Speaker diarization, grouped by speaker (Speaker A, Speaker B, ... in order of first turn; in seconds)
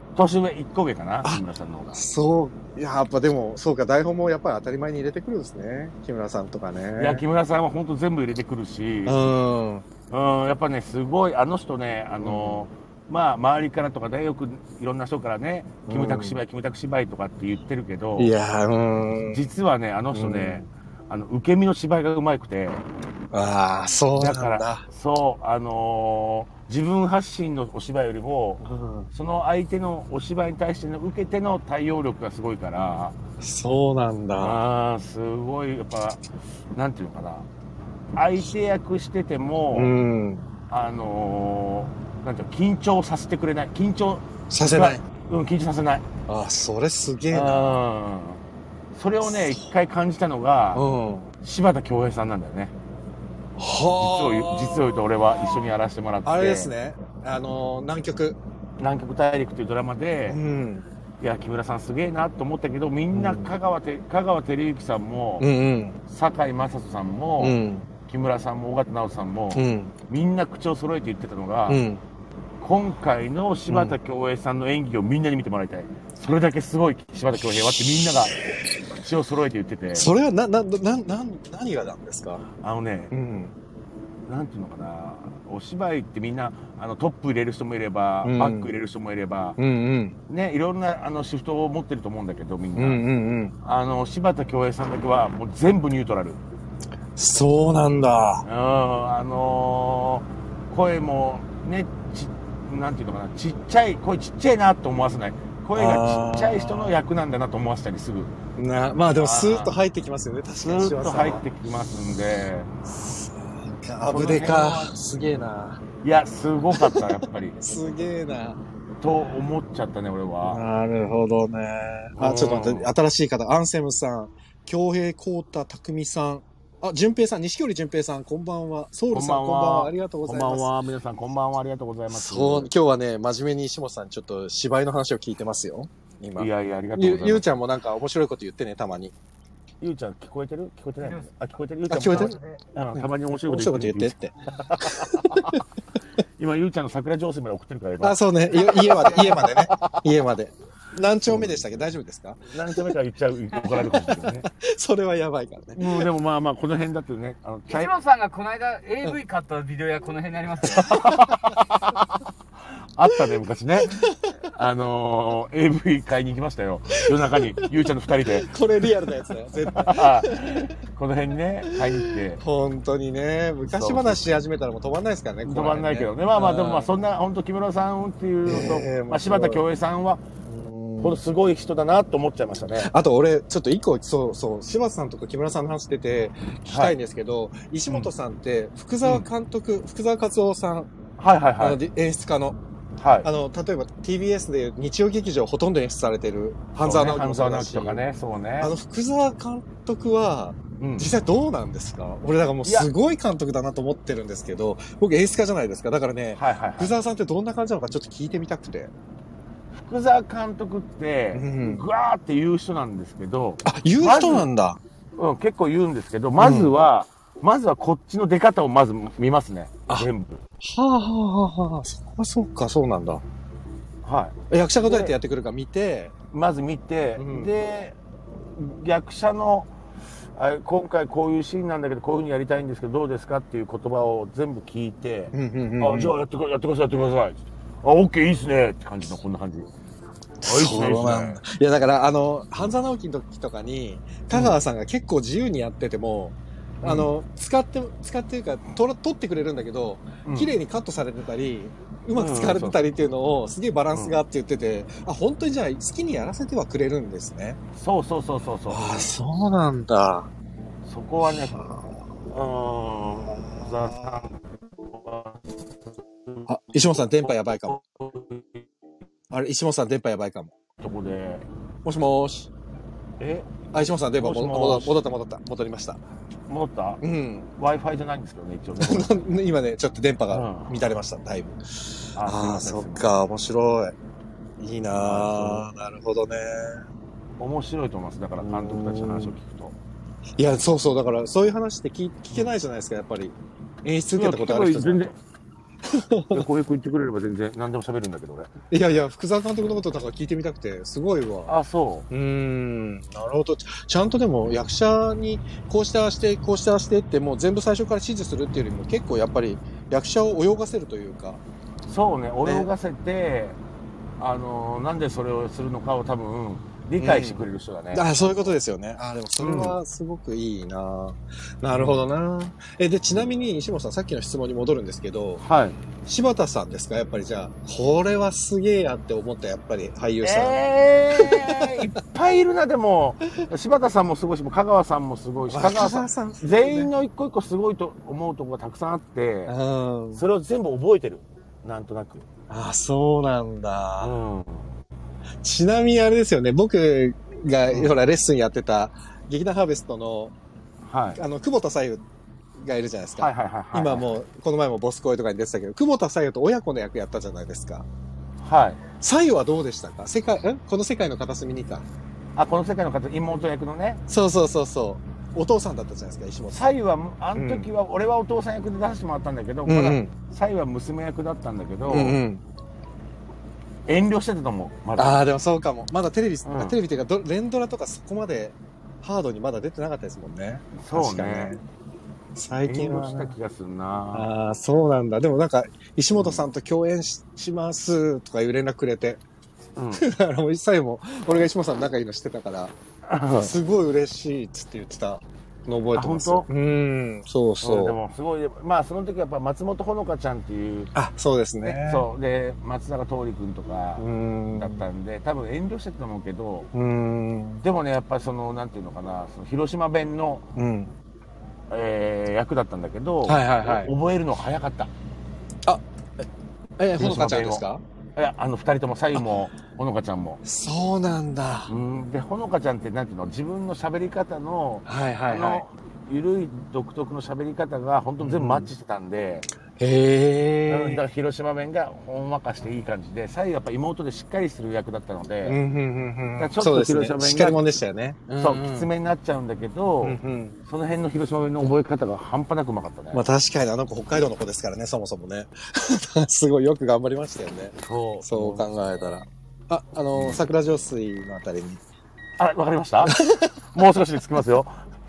Speaker A: 0.1-2.0, 7.0-9.3, 10.1-18.3, 19.3-22.8, 24.1-33.2, 34.4-36.2, 36.7-37.5, 38.1-39.9, 40.7-46.1, 47.3-48.4, 48.9-50.8, 51.4-52.7, 54.0-56.7, 58.8-60.4, 61.2-65.5, 66.1-71.8, 72.6-78.4, 79.0-80.1, 82.6-83.1, 84.3-89.6, 90.3-93.0, 93.6-96.4, 98.4-108.4, 109.1-109.8, 110.6-112.7, 114.0-114.9, 116.0-117.6, 119.0-120.6, 122.2-122.9, 129.1-132.7, 136.4-137.5, 139.8-145.6, 146.4-150.1, 151.2-151.9, 152.4-154.5, 155.7-157.9, 160.6-162.2, 162.9-168.5, 169.7-172.4, 173.7-174.2, 175.4-180.2, 181.0-182.9, 186.7-186.9, 191.2-191.8, 193.0-193.3, 196.8-198.7, 200.8-201.1, 202.6-202.9, 206.3-206.9, 209.7-214.5, 215.2-220.4, 224.0-225.1, 226.3-228.0, 228.5-229.7, 230.3-239.7, 240.4-241.4, 244.3-244.6, 246.8-247.1, 250.2-250.5, 252.1-252.8, 253.9-254.2, 257.7-259.1, 260.8-261.6, 262.3-265.6, 267.6-268.7, 270.8-271.5, 273.2-273.5, 274.1-275.0, 276.5-277.0, 277.6-279.4, 280.3-280.8, 282.1-283.1, 284.9-285.7, 287.4-289.8, 294.1-295.1, 296.3-298.5, 301.5-302.1, 311.9-313.6, 314.2-318.6, 319.4-319.8, 321.7-322.0, 325.4-325.8, 330.2-339.5, 340.1-342.3, 344.0-344.7, 347.7-347.9, 350.8-351.2, 353.2-354.1, 358.4-358.8, 362.4-364.0, 366.5-372.2, 373.9-375.2, 376.4-376.8, 380.8-381.5, 382.6-384.3, 386.1-386.4, 389.8-390.1, 393.1-393.5, 395.9-396.5, 397.6-400.9, 401.6-406.7, 407.6-410.5, 411.7-414.9, 416.9-420.4, 421.7-429.5, 430.7-435.6, 436.4-437.7, 438.4-443.2, 447.8-449.0, 450.1-450.4, 452.4-453.2, 453.7-454.8
Speaker B: 1.9-7.2, 9.1-9.9, 12.2-12.6, 15.9-16.4, 18.2-19.4, 20.1-20.6, 23.3-24.8, 28.6-29.1, 33.4-34.6, 39.7-40.5, 44.5-45.0, 46.3-47.8, 49.2-49.6, 50.7-51.3, 53.6-55.0, 56.2-58.4, 60.3-60.9, 63.1-63.5, 65.4-66.0, 67.4-67.9, 69.5-69.9, 71.7-72.0, 73.7-74.0, 79.9-82.4, 83.1-83.5, 88.2-88.7, 89.6-90.2, 92.8-93.5, 97.2-98.4, 105.7-107.0, 108.6-111.4, 112.8-115.8, 116.7-118.6, 120.4-130.7, 132.1-139.1, 141.9-142.4, 142.9-145.6, 148.0-152.8, 153.7-156.1, 160.7-161.1, 163.9-164.3, 167.1-167.6, 168.2-170.7, 171.7-176.9, 178.4-179.6, 180.4-181.2, 182.8-190.9, 191.6-192.6, 193.2-198.0, 198.6-208.9, 211.3-211.9, 213.6-214.8, 216.4-216.7, 220.6-223.2, 224.5-226.1, 227.2-227.5, 235.3-236.2, 240.4-257.6, 258.7-260.3, 261.2-262.0, 263.5-264.2, 266.4-267.8, 269.3-270.5, 271.8-272.5, 273.7-276.0, 277.0-277.5, 278.8-281.6, 282.1-283.9, 284.6-286.9, 288.4-289.3, 290.4-295.1, 295.9-296.4, 298.7-301.5, 302.1-311.4, 312.4-312.7, 317.0-325.4, 326.0-330.6, 331.1-331.7, 335.5-336.9, 339.5-340.2, 342.5-344.1, 345.4-350.3, 351.1-352.0, 352.6-357.9, 359.0-361.9, 364.1-366.7, 367.3-367.7, 369.6-370.1, 371.9-372.4, 375.0-381.6, 382.3-383.3, 384.1-389.2, 389.9-392.7, 393.4-398.0, 400.9-402.1, 404.0-404.8, 406.7-407.6, 410.6-410.9, 413.2-413.9, 415.6-416.2, 416.8-417.8, 420.4-421.7, 424.9-425.6, 428.2-428.7, 429.8-431.0, 435.4-438.9, 440.0-440.6, 443.1-451.8, 453.0-453.5
Speaker C: 142.1-142.6, 148.6-149.5, 157.7-161.0